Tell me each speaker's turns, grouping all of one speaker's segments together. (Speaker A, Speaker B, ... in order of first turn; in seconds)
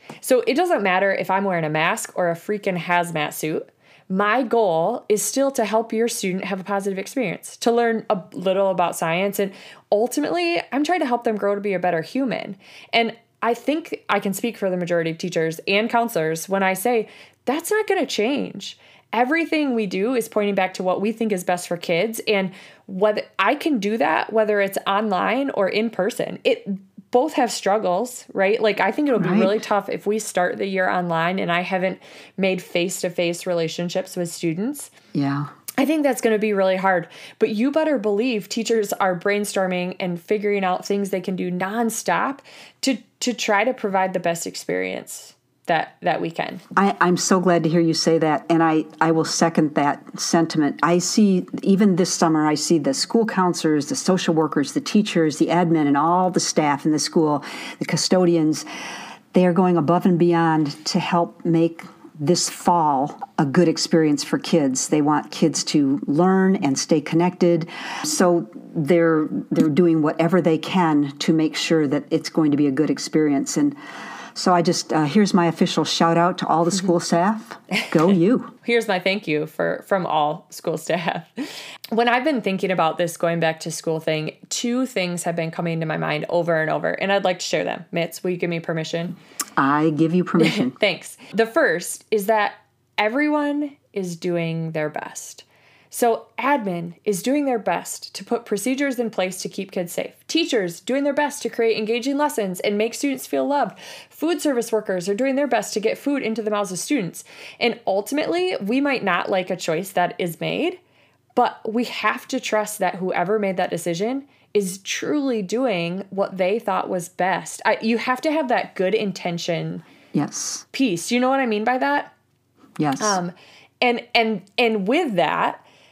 Speaker A: 0.2-34.9, 35.8-46.6, 78.6-89.1, 90.4-110.8, 111.3-119.8, 120.7-122.1, 123.0-125.6
Speaker B: 29.2-29.6, 35.1-35.5, 46.8-58.6, 59.3-73.8, 74.3-78.5, 89.6-90.7, 120.1-120.6, 122.8-123.2